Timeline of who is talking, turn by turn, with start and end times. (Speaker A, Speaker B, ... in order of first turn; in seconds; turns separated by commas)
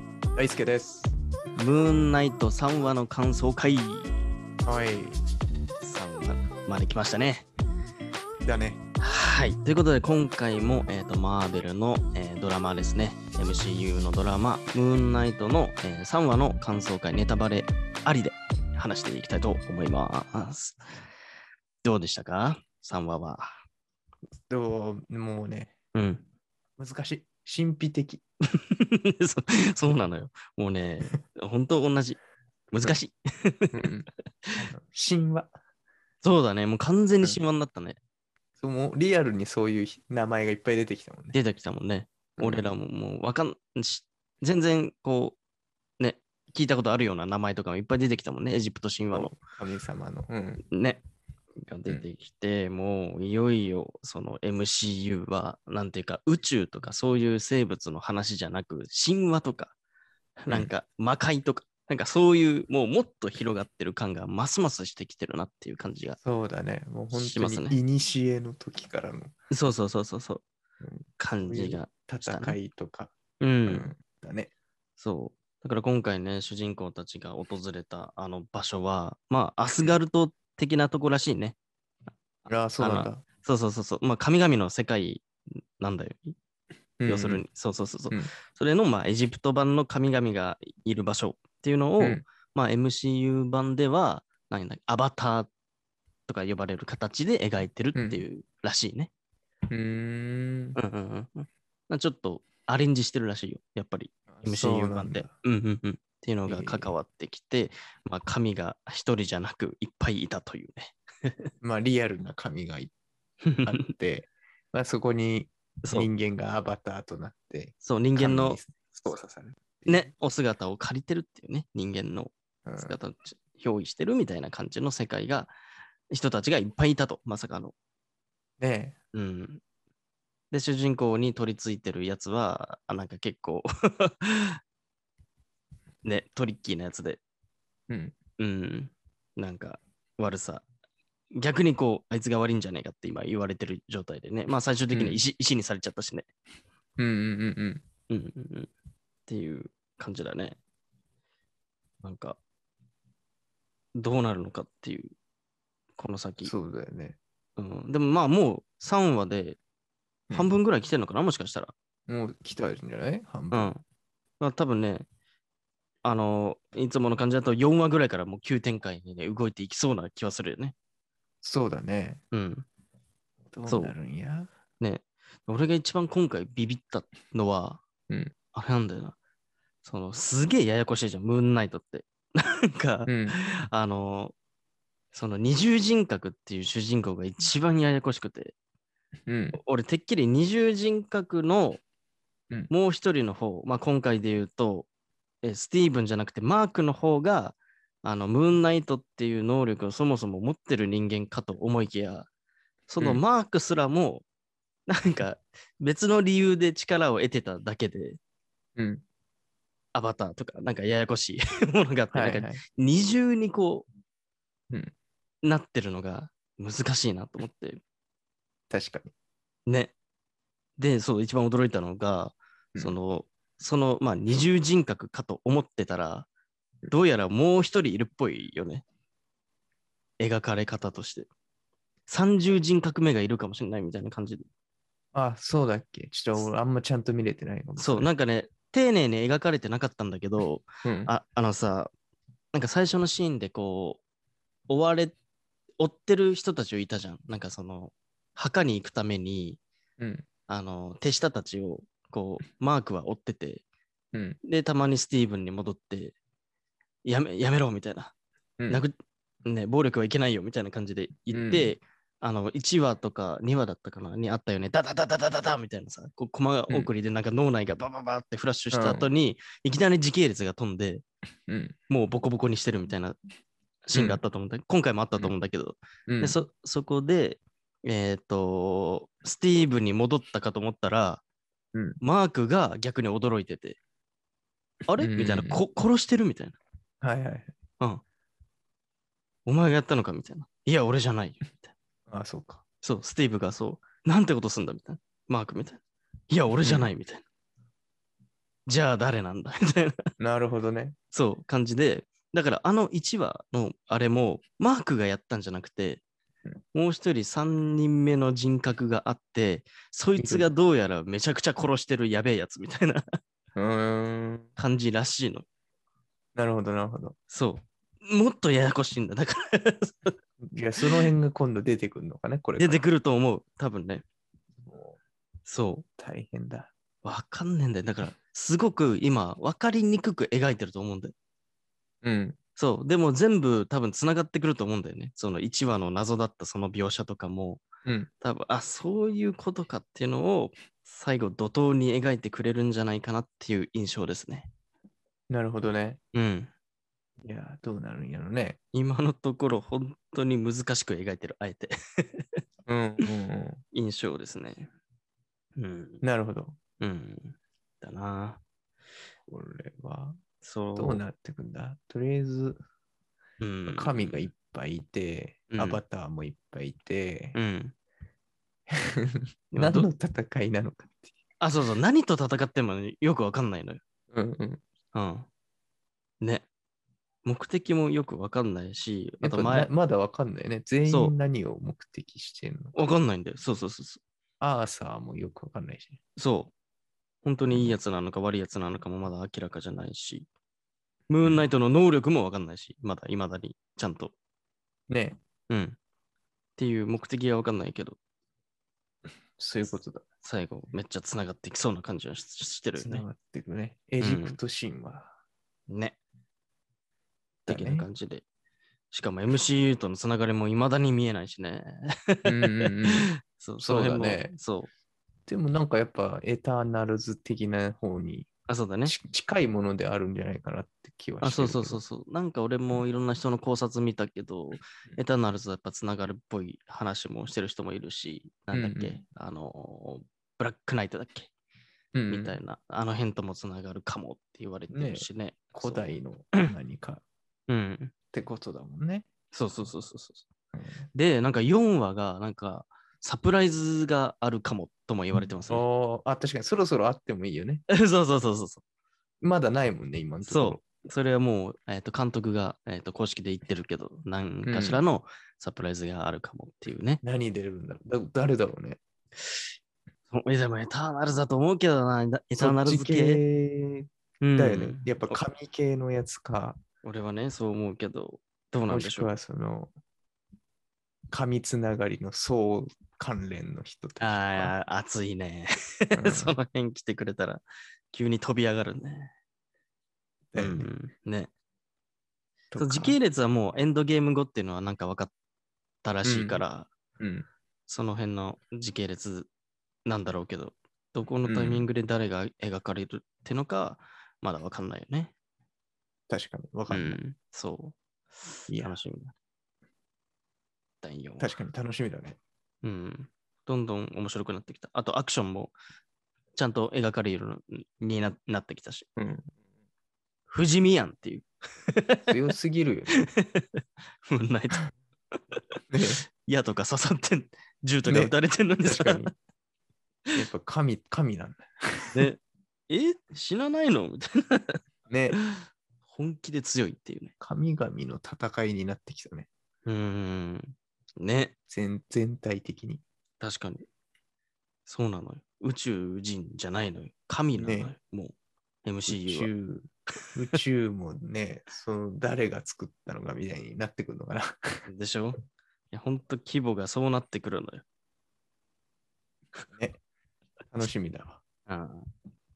Speaker A: 0.3-1.1, Speaker B: 1.6-4.1, Speaker A: 4.6-5.2, Speaker B: 5.8-7.4, Speaker A: 8.4-8.8, Speaker B: 9.0-20.8, Speaker B: 21.8-23.6, Speaker A: 24.5-25.7, Speaker B: 25.9-26.2, Speaker A: 26.8-28.2, Speaker B: 28.7-32.2, Speaker B: 32.7-33.9, Speaker A: 33.7-35.5, Speaker B: 36.2-38.0, Speaker A: 38.6-41.4, Speaker B: 41.3-45.4, Speaker A: 42.4-42.7, Speaker B: 46.0-49.4, Speaker A: 49.1-50.6, Speaker B: 50.7-51.0, Speaker B: 51.6-59.7, Speaker B: 60.4-66.2, Speaker A: 66.2-69.3, Speaker B: 67.1-67.8, Speaker B: 69.5-70.4, Speaker A: 70.8-74.5, Speaker B: 71.2-72.6, Speaker B: 73.4-73.9, Speaker B: 75.0-81.5, Speaker A: 82.5-83.2, Speaker B: 82.8-86.3, Speaker A: 87.0-87.4, Speaker B: 87.1-95.5, Speaker B: 96.3-99.1, Speaker A: 97.9-98.2, Speaker A: 99.7-100.8, Speaker B: 100.8-111.5, Speaker A: 104.3-105.3, Speaker A: 106.5-106.9, Speaker A: 111.6-112.9, Speaker B: 113.4-113.9, Speaker A: 113.6-120.1, Speaker B: 115.8-116.1, Speaker B: 117.8-118.6, Speaker B: 119.9-125.5, Speaker A: 122.7-123.0, Speaker B: 126.1-127.7, Speaker A: 128.6-128.9, Speaker B: 129.1-129.6, Speaker B: 130.5-134.6, Speaker B: 136.0-137.2, Speaker A: 137.9-138.1, Speaker B: 138.4-140.6, Speaker B: 141.3-146.3, Speaker A: 144.9-145.2, Speaker A: 147.0-147.8, Speaker B: 148.1-148.7, Speaker B: 149.3-150.6, Speaker B: 152.0-152.4, Speaker B: 153.9-155.1, Speaker B: 156.0-156.5, Speaker A: 156.4-157.2, Speaker B: 157.6-159.6, Speaker A: 160.3-160.6, Speaker B: 160.3-161.7, Speaker A: 162.1-163.7, Speaker B: 163.5-163.8, Speaker B: 164.4-165.1, Speaker B: 166.0-170.7, Speaker A: 171.4-172.2, Speaker B: 172.3-172.7, Speaker A: 173.5-174.5, Speaker B: 173.7-173.9, Speaker B: 174.8-177.8, Speaker B: 178.5-179.1, Speaker B: 179.8-184.3, Speaker A: 183.1-183.3, Speaker B: 185.1-188.5, Speaker A: 189.3-189.6, Speaker B: 189.5-191.8, Speaker B: 192.7-194.9, Speaker B: 195.4-202.3, Speaker B: 202.9-204.2, Speaker B: 204.9-208.2, Speaker A: 208.8-209.0, Speaker B: 209.9-213.8, Speaker A: 212.1-212.6, Speaker B: 215.4-217.8, Speaker A: 218.7-219.1, Speaker B: 219.7-219.9, Speaker B: 220.8-226.3, Speaker B: 226.9-228.8, Speaker B: 230.2-231.3, Speaker B: 232.1-234.4, Speaker A: 235.1-238.1, Speaker B: 237.8-241.9, Speaker A: 240.8-241.1, Speaker B: 242.5-244.0, Speaker B: 244.7-245.1, Speaker B: 245.8-249.6, Speaker A: 250.0-250.2, Speaker B: 250.5-253.6, Speaker B: 254.4-256.1, Speaker B: 257.0-258.1, Speaker A: 258.6-258.8, Speaker B: 258.7-258.9, Speaker B: 259.4-271.0, Speaker A: 261.3-261.8, Speaker A: 268.7-269.1, Speaker A: 271.5-271.8, Speaker B: 271.9-273.2, Speaker B: 273.9-281.2, Speaker A: 273.9-274.2, Speaker A: 276.1-276.4, Speaker A: 281.7-282.0, Speaker B: 282.0-283.8, Speaker B: 284.9-286.6, Speaker A: 285.0-285.6, Speaker A: 287.0-287.5, Speaker B: 289.4-291.7, Speaker A: 292.1-292.6, Speaker B: 292.8-297.2, Speaker A: 296.6-296.9, Speaker B: 298.7-299.9, Speaker A: 300.2-300.9, Speaker B: 301.1-306.0, Speaker B: 306.7-313.1, Speaker A: 310.2-310.5, Speaker A: 313.6-314.5, Speaker B: 314.6-315.4, Speaker A: 316.3-317.1, Speaker B: 317.3-320.1, Speaker A: 320.4-322.8, Speaker B: 322.6-324.0, Speaker A: 324.6-325.0, Speaker B: 325.4-325.8, Speaker A: 326.0-326.7, Speaker B: 327.0-331.1, Speaker A: 332.0-332.4, Speaker B: 332.6-337.6, Speaker B: 338.2-344.5, Speaker A: 345.3-346.0, Speaker B: 346.1-346.5, Speaker A: 347.2-348.6, Speaker B: 348.7-352.4, Speaker A: 352.7-353.6, Speaker B: 353.7-354.7, Speaker B: 355.6-356.0, Speaker A: 356.0-356.6, Speaker B: 356.8-358.4, Speaker A: 359.3-360.2, Speaker B: 360.4-361.0, Speaker A: 360.8-362.6, Speaker B: 363.4-364.3, Speaker A: 363.7-367.4, Speaker B: 365.5-365.8, Speaker B: 367.3-367.7, Speaker A: 368.7-371.2, Speaker B: 369.5-369.9, Speaker B: 371.4-373.8, Speaker A: 374.1-374.6, Speaker B: 374.9-375.3, Speaker B: 376.2-376.5, Speaker B: 377.2-379.7, Speaker A: 379.2-382.8, Speaker B: 380.9-381.1, Speaker B: 382.7-384.0, Speaker A: 384.4-386.0, Speaker B: 386.2-386.5, Speaker B: 387.2-390.3, Speaker A: 387.5-387.8, Speaker B: 391.1-394.1, Speaker A: 394.9-395.2, Speaker B: 395.5-395.8, Speaker B: 396.6-398.0, Speaker A: 399.4-400.0, Speaker B: 400.2-403.0, Speaker A: 402.8-405.1, Speaker B: 404.0-404.4, Speaker B: 405.7-406.0, Speaker B: 407.4-408.2, Speaker A: 407.5-407.9, Speaker B: 408.9-412.7, Speaker A: 412.2-414.3, Speaker B: 413.3-414.7, Speaker A: 415.3-418.3, Speaker B: 418.5-418.9, Speaker A: 418.8-421.8, Speaker B: 421.2-431.3, Speaker A: 428.5-429.0, Speaker A: 431.9-432.4, Speaker B: 432.1-435.9, Speaker A: 434.7-437.0, Speaker B: 437.5-437.9, Speaker A: 438.1-439.1, Speaker B: 439.3-440.2, Speaker A: 440.5-440.9, Speaker B: 440.9-445.6, Speaker A: 445.1-447.6, Speaker B: 447.7-448.6, Speaker A: 449.2-450.6, Speaker B: 450.2-457.0, Speaker A: 454.4-454.8, Speaker A: 457.0-458.8, Speaker B: 460.1-463.2, Speaker A: 462.4-466.6, Speaker B: 464.2-465.2, Speaker B: 466.8-469.1, Speaker A: 468.7-469.7, Speaker A: 471.1-474.5, Speaker B: 474.0-479.1, Speaker A: 475.9-476.4, Speaker A: 480.3-480.7, Speaker B: 480.4-481.3, Speaker A: 482.5-483.0, Speaker B: 482.6-485.1, Speaker B: 485.8-486.7, Speaker A: 486.0-486.4, Speaker A: 487.0-487.3, Speaker B: 487.7-489.3, Speaker B: 489.9-495.1, Speaker A: 491.2-491.7, Speaker A: 496.1-497.0, Speaker B: 496.7-499.1, Speaker A: 498.5-498.8, Speaker B: 500.8-501.3, Speaker A: 501.2-502.2, Speaker B: 502.6-505.5, Speaker B: 506.3-508.9, Speaker A: 509.0-509.3, Speaker B: 510.3-512.1, Speaker A: 512.1-512.9, Speaker B: 513.1-515.4, Speaker A: 515.7-516.0, Speaker B: 516.2-519.1, Speaker A: 517.8-519.1, Speaker A: 520.1-522.1, Speaker B: 521.9-524.6, Speaker A: 524.9-525.2, Speaker B: 525.3-527.1, Speaker A: 527.2-529.3, Speaker B: 529.6-531.3, Speaker A: 531.5-532.8, Speaker B: 533.2-533.7, Speaker B: 534.6-539.3, Speaker A: 537.3-537.8, Speaker A: 538.9-544.6, Speaker B: 544.6-547.6, Speaker A: 549.5-549.8, Speaker A: 550.5-551.2, Speaker B: 551.5-551.9